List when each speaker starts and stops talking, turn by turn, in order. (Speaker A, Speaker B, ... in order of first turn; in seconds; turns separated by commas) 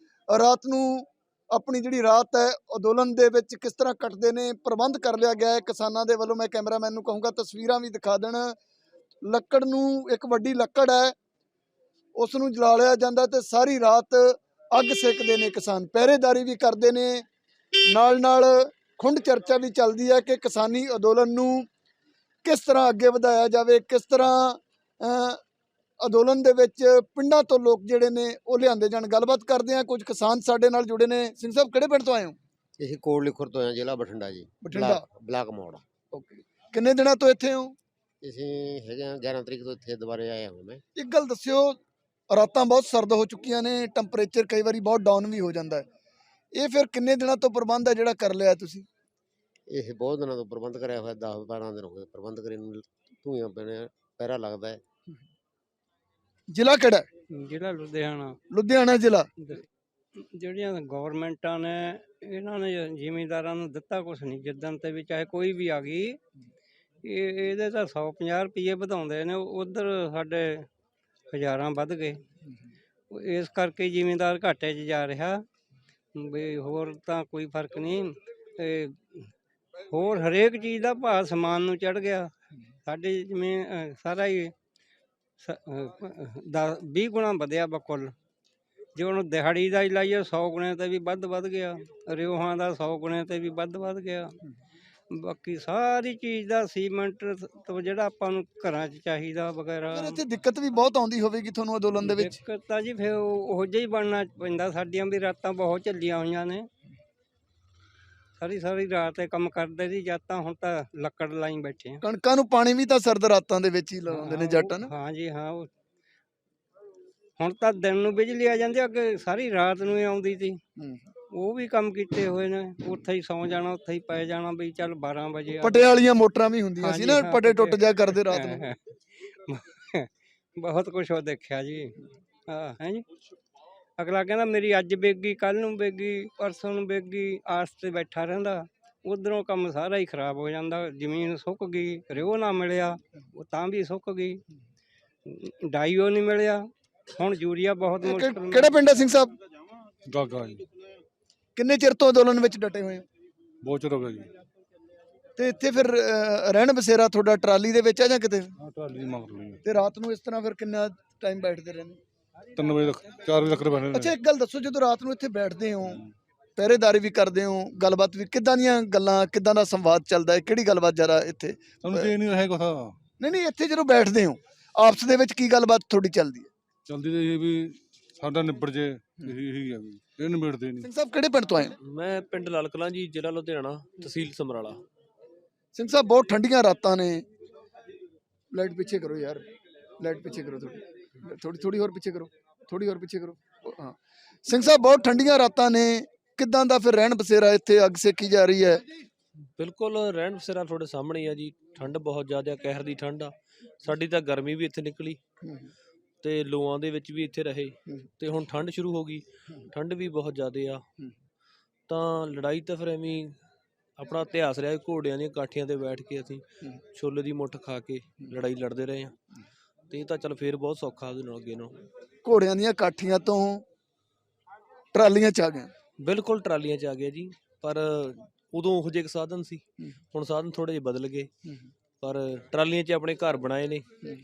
Speaker A: 0.3-8.5, Speaker A: 9.2-11.1, Speaker A: 12.2-17.2, Speaker A: 17.9-21.7, Speaker A: 22.4-25.4, Speaker A: 26.0-32.4, Speaker B: 32.8-35.8, Speaker A: 34.6-35.0, Speaker A: 36.1-37.7, Speaker B: 38.2-40.8, Speaker A: 41.0-41.8, Speaker A: 42.3-45.8, Speaker A: 46.5-48.8, Speaker B: 49.7-54.8, Speaker A: 56.5-57.0, Speaker C: 57.3-58.4, Speaker A: 58.5-59.3, Speaker C: 59.4-66.2, Speaker C: 67.0-70.7, Speaker C: 71.3-72.2, Speaker C: 73.1-75.4, Speaker C: 76.2-79.3, Speaker C: 79.9-82.3, Speaker C: 82.8-84.5, Speaker C: 85.4-88.1, Speaker C: 89.0-94.3, Speaker C: 95.1-100.2, Speaker A: 99.9-102.3, Speaker C: 102.0-106.7, Speaker C: 108.4-112.0, Speaker A: 112.0-114.9, Speaker C: 114.1-115.7, Speaker C: 117.4-120.6, Speaker C: 121.3-125.9, Speaker A: 125.6-128.7, Speaker C: 126.8-131.9, Speaker C: 132.5-133.0, Speaker C: 134.0-144.4, Speaker C: 145.2-146.6, Speaker C: 147.2-148.8, Speaker A: 148.0-149.3, Speaker D: 150.1-150.7, Speaker A: 151.6-153.0, Speaker D: 153.6-154.3, Speaker A: 155.4-158.5, Speaker D: 158.6-159.6, Speaker A: 159.6-162.0, Speaker D: 162.6-164.2, Speaker A: 163.9-166.0, Speaker A: 166.6-172.1, Speaker D: 171.8-172.9, Speaker A: 173.2-176.5, Speaker D: 176.9-180.9, Speaker A: 180.8-181.7, Speaker E: 181.8-184.8, Speaker A: 185.7-187.2, Speaker A: 188.5-189.4, Speaker A: 190.0-198.8, Speaker E: 199.6-205.2, Speaker E: 206.2-210.8, Speaker E: 211.9-213.3, Speaker E: 214.0-216.4, Speaker E: 216.9-219.2, Speaker E: 219.9-221.8, Speaker A: 222.2-223.6, Speaker A: 224.9-225.7, Speaker E: 226.0-231.3, Speaker E: 232.0-233.9